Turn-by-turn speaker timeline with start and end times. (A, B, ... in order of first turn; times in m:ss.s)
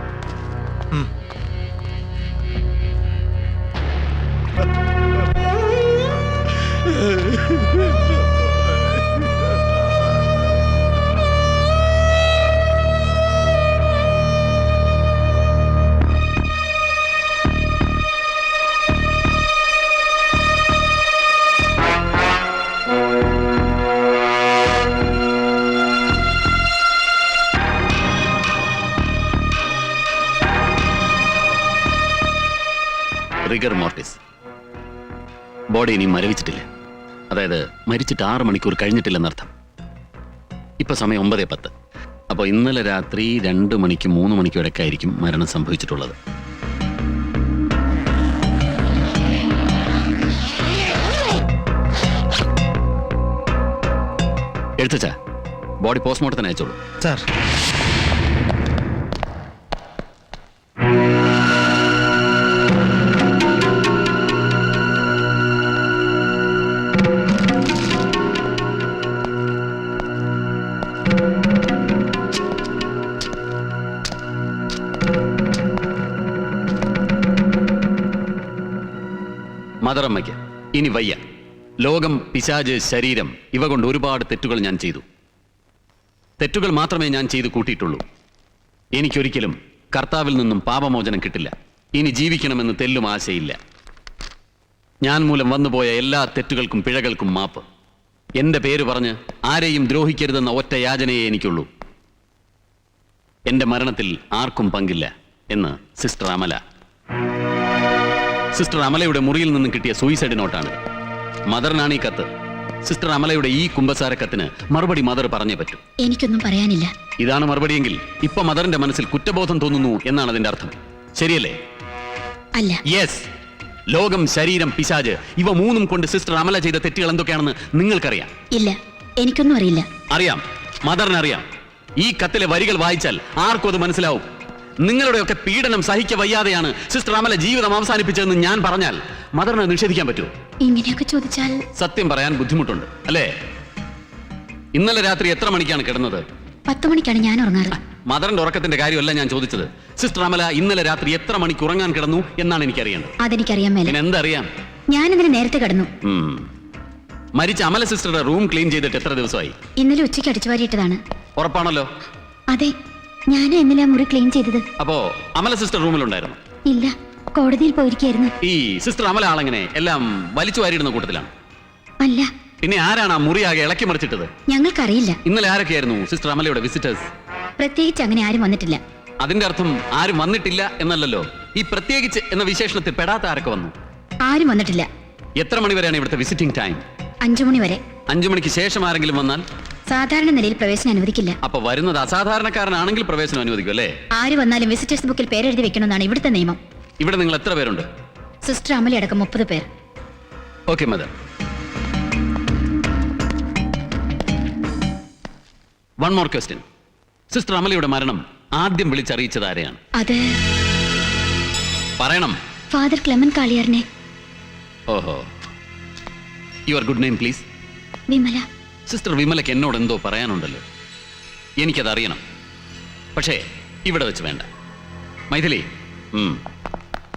0:33.4-0:34.2 A
0:35.7-0:36.7 A
0:37.3-0:39.5 A
0:40.8-0:41.7 A
0:42.3-0:46.2 A
0:54.8-0:55.2 A
0:55.8-0:56.8 A
1:19.8-1:21.2 A
1:21.8-1:25.0 A
1:26.4-1:28.0 A
1:29.0-1:33.6 A
1:35.0-1:37.6 A
1:38.4-1:41.7 A
1:43.5-1:46.6 A
1:48.5-1:50.8 A
1:51.5-1:52.3 A
1:52.8-1:55.8 A
1:56.0-1:56.9 B
1:57.2-2:01.6 A
2:02.9-2:03.3 A
2:03.9-2:08.3 A
2:08.5-2:09.9 B
2:10.1-2:11.5 A
2:12.0-2:14.2 A
2:14.8-2:20.3 A
2:20.6-2:21.6 B
2:21.8-2:23.3 A
2:24.8-2:26.2 A
2:26.7-2:27.8 B
2:27.7-2:33.2 A
2:33.2-2:34.0 B
2:33.8-2:34.5 A
2:34.9-2:35.9 B
2:36.0-2:36.4 A
2:37.4-2:39.6 A
2:39.8-2:41.0 B
2:41.4-2:41.9 A
2:43.3-2:44.6 B
2:44.8-2:46.4 A
2:46.7-2:48.3 B
2:48.4-2:51.3 A
2:52.0-2:52.3 B
2:52.6-2:54.3 A
2:54.5-2:55.2 B
2:55.2-2:57.1 A
2:57.6-2:58.8 B
2:59.2-3:03.7 A
3:04.2-3:04.9 B
3:05.4-3:06.8 A
3:07.2-3:07.8 B
3:08.1-3:09.4 A
3:09.9-3:11.4 B
3:11.4-3:13.9 A
3:14.2-3:16.6 B
3:17.0-3:17.9 A
3:18.4-3:19.7 B
3:20.7-3:21.1 A
3:26.0-3:26.6 A
3:27.3-3:29.8 A
3:30.0-3:30.3 B
3:32.0-3:32.4 A
3:32.7-3:33.8 B
3:34.9-3:35.2 A
3:36.7-3:37.5 A
3:38.1-3:38.4 B
3:38.9-3:40.6 A
3:41.6-3:42.2 A
3:43.2-3:44.5 A
3:45.3-3:46.4 A